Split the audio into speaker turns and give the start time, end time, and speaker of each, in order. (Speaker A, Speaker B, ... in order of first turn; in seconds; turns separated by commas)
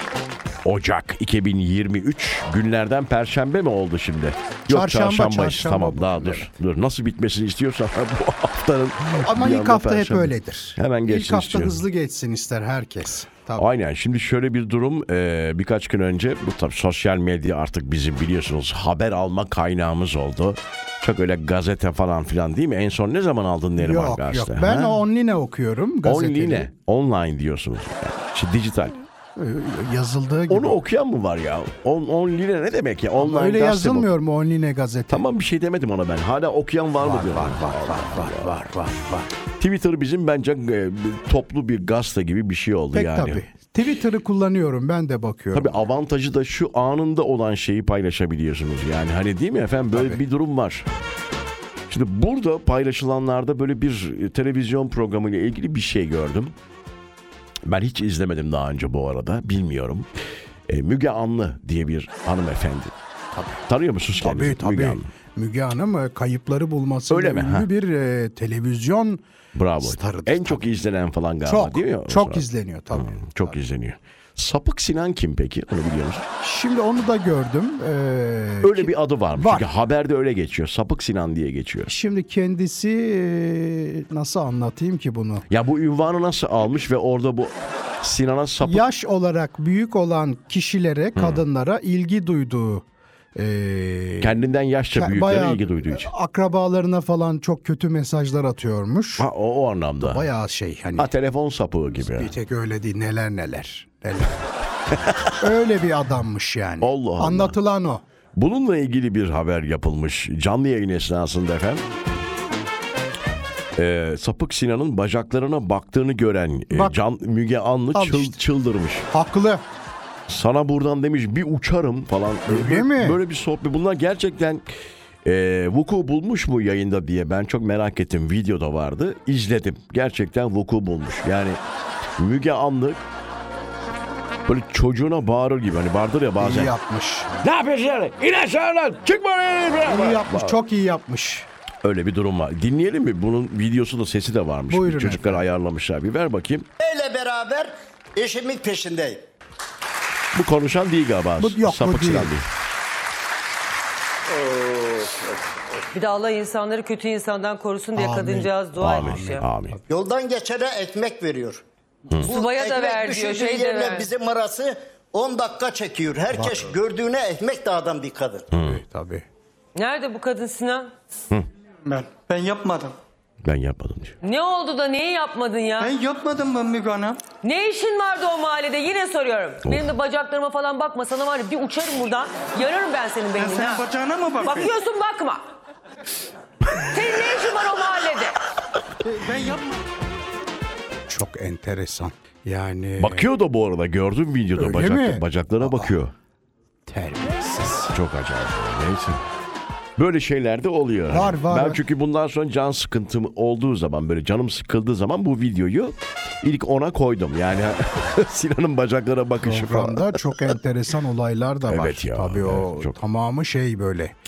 Speaker A: 0.6-11.8, Speaker B: 4.7-6.5, Speaker B: 9.2-13.6, Speaker A: 13.6-25.0, Speaker B: 23.8-26.7, Speaker A: 26.0-29.0, Speaker B: 29.4-30.8, Speaker A: 30.5-34.1, Speaker B: 33.2-35.2, Speaker A: 35.1-38.5, Speaker B: 37.0-39.3, Speaker A: 39.6-43.4, Speaker B: 42.9-45.9, Speaker A: 45.5-50.9, Speaker B: 49.9-50.2, Speaker A: 51.9-56.5, Speaker A: 57.6-60.1, Speaker A: 60.7-62.9, Speaker B: 63.3-63.6, Speaker A: 63.7-65.1, Speaker B: 64.2-69.2, Speaker A: 67.1-67.7, Speaker A: 69.5-76.2, Speaker B: 69.8-70.7, Speaker B: 71.4-73.5, Speaker B: 76.4-79.7, Speaker A: 78.6-81.9, Speaker B: 81.9-85.5, Speaker A: 85.5-88.8, Speaker B: 88.6-94.4, Speaker A: 91.2-91.4, Speaker A: 94.2-96.1, Speaker B: 94.9-99.3, Speaker A: 99.2-100.3, Speaker B: 100.0-101.1, Speaker A: 101.0-102.3, Speaker B: 102.0-104.4, Speaker A: 104.9-105.3, Speaker B: 105.4-108.0, Speaker A: 106.8-107.5, Speaker A: 108.3-111.8, Speaker A: 113.8-119.1, Speaker B: 116.7-117.0, Speaker B: 117.9-118.4, Speaker B: 119.1-119.6, Speaker A: 120.3-124.6, Speaker B: 122.5-123.2, Speaker A: 125.2-131.6, Speaker A: 132.2-133.0, Speaker A: 134.4-136.7, Speaker B: 136.4-137.3, Speaker A: 137.4-140.6, Speaker B: 139.8-141.5, Speaker A: 141.8-146.7, Speaker B: 144.7-145.4, Speaker C: 146.8-149.2, Speaker A: 150.3-152.5, Speaker B: 151.4-152.3, Speaker C: 154.3-155.8, Speaker D: 155.9-159.4, Speaker B: 157.9-159.8, Speaker A: 158.8-159.8, Speaker C: 159.9-168.5, Speaker D: 162.2-164.1, Speaker B: 166.3-166.6, Speaker A: 168.5-168.8, Speaker B: 168.5-169.2, Speaker D: 169.7-170.9, Speaker E: 171.8-172.9, Speaker A: 173.4-174.2, Speaker D: 174.2-175.9, Speaker E: 175.8-177.2, Speaker D: 177.4-183.9, Speaker E: 183.3-184.7, Speaker D: 184.4-185.4, Speaker D: 186.7-188.4, Speaker E: 189.1-189.8, Speaker B: 191.1-193.3, Speaker A: 193.0-196.1, Speaker B: 194.6-195.9, Speaker B: 196.9-197.9, Speaker A: 197.9-199.2, Speaker A: 200.0-210.5, Speaker B: 201.1-201.8, Speaker B: 209.4-214.1, Speaker A: 211.7-212.9